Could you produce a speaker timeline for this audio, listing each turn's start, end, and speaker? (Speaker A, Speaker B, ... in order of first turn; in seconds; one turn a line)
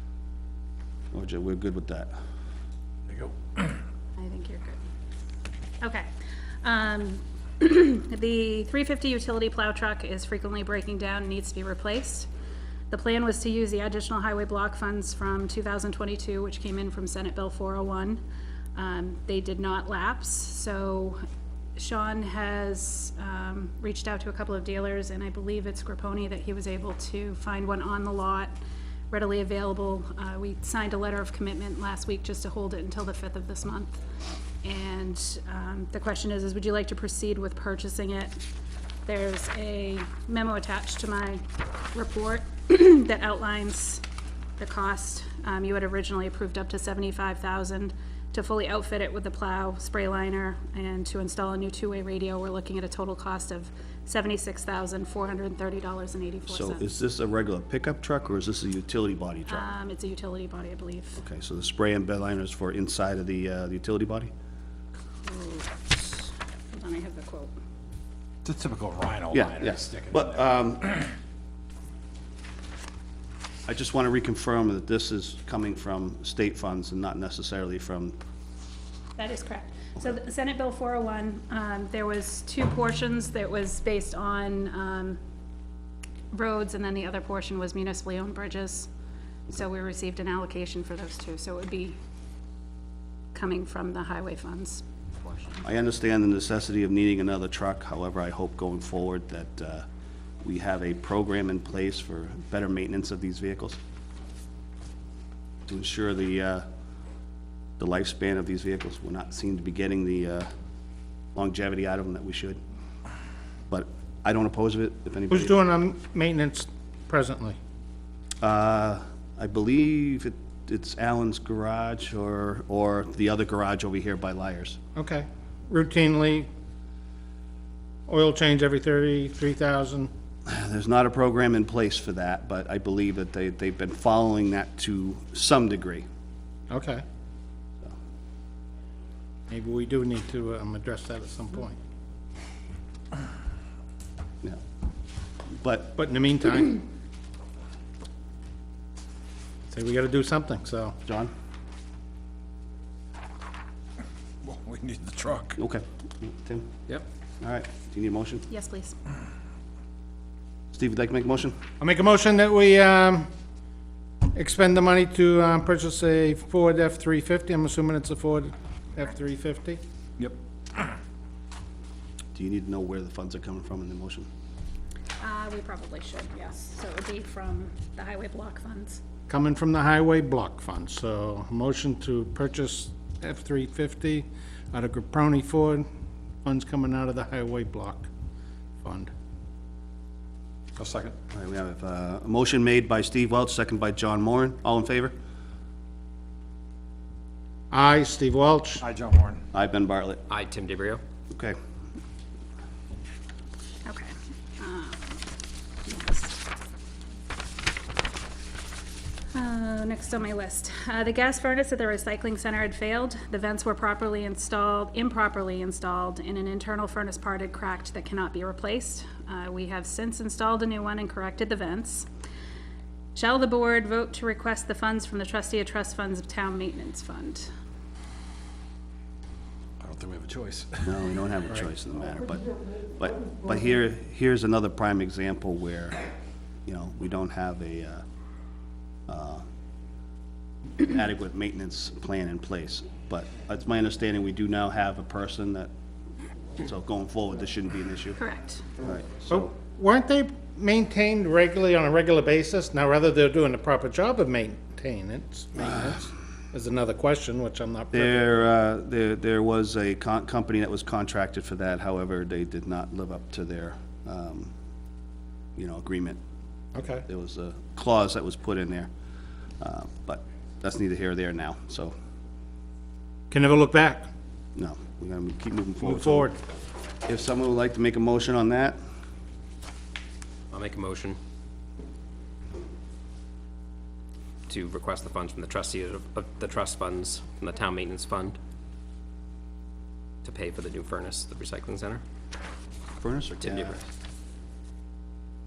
Speaker A: 1.1-2.1
Speaker B: 3.1-3.6
Speaker C: 4.2-4.8
Speaker C: 5.8-6.1
Speaker C: 6.6-12.3
Speaker C: 12.9-18.2
Speaker C: 18.8-21.2
Speaker C: 21.8-28.5
Speaker C: 29.1-34.0
Speaker C: 34.6-38.4
Speaker C: 39.0-41.4
Speaker C: 41.9-44.0
Speaker C: 44.6-56.8
Speaker A: 56.5-59.7
Speaker C: 59.5-61.2
Speaker A: 61.2-64.3
Speaker C: 65.2-67.5
Speaker B: 68.4-70.2
Speaker A: 69.3-71.0
Speaker A: 73.7-78.2
Speaker C: 79.2-85.2
Speaker C: 86.3-88.9
Speaker C: 89.5-92.0
Speaker C: 93.3-95.5
Speaker A: 95.6-99.8
Speaker A: 100.4-103.8
Speaker A: 105.7-106.7
Speaker A: 107.8-110.5
Speaker A: 111.3-112.6
Speaker A: 113.7-115.5
Speaker D: 115.3-117.6
Speaker A: 118.4-124.8
Speaker D: 125.0-126.5
Speaker D: 128.1-130.1
Speaker A: 130.5-136.1
Speaker D: 136.7-137.0
Speaker D: 139.5-141.8
Speaker A: 145.6-145.9
Speaker D: 145.9-146.8
Speaker D: 149.7-151.0
Speaker A: 151.0-151.3
Speaker B: 154.4-155.6
Speaker A: 155.6-156.8
Speaker A: 157.4-158.5
Speaker C: 158.5-159.0
Speaker A: 160.7-161.6
Speaker D: 161.8-163.3
Speaker D: 164.3-169.8
Speaker A: 172.3-174.3
Speaker C: 175.2-179.0
Speaker D: 179.3-185.8
Speaker D: 186.4-188.1
Speaker D: 188.8-189.1
Speaker B: 190.8-191.2
Speaker A: 191.3-195.1
Speaker D: 197.7-198.8
Speaker B: 198.8-199.4
Speaker A: 199.5-200.2
Speaker E: 200.3-201.0
Speaker A: 201.3-201.6
Speaker C: 203.8-205.2
Speaker C: 205.8-206.4
Speaker C: 209.3-222.1
Speaker C: 223.2-227.5
Speaker B: 229.8-230.9
Speaker A: 230.8-236.0
Speaker A: 236.7-238.0
Speaker A: 239.1-239.4
Speaker A: 240.8-245.7
Speaker A: 246.6-248.2
Speaker C: 248.2-248.6
Speaker A: 248.8-249.5
Speaker D: 249.3-258.3
Speaker A: 257.9-264.5
Speaker A: 265.6-266.2
Speaker D: 266.8-267.0
Speaker A: 267.1-268.9
Speaker A: 269.6-271.9
Speaker D: 273.3-274.1
Speaker A: 274.6-276.3
Speaker D: 275.8-276.4
Speaker A: 277.1-278.8
Speaker E: 280.5-281.2
Speaker E: 284.5-288.4
Speaker E: 290.2-292.0
Speaker A: 293.0-293.8
Speaker E: 293.4-293.8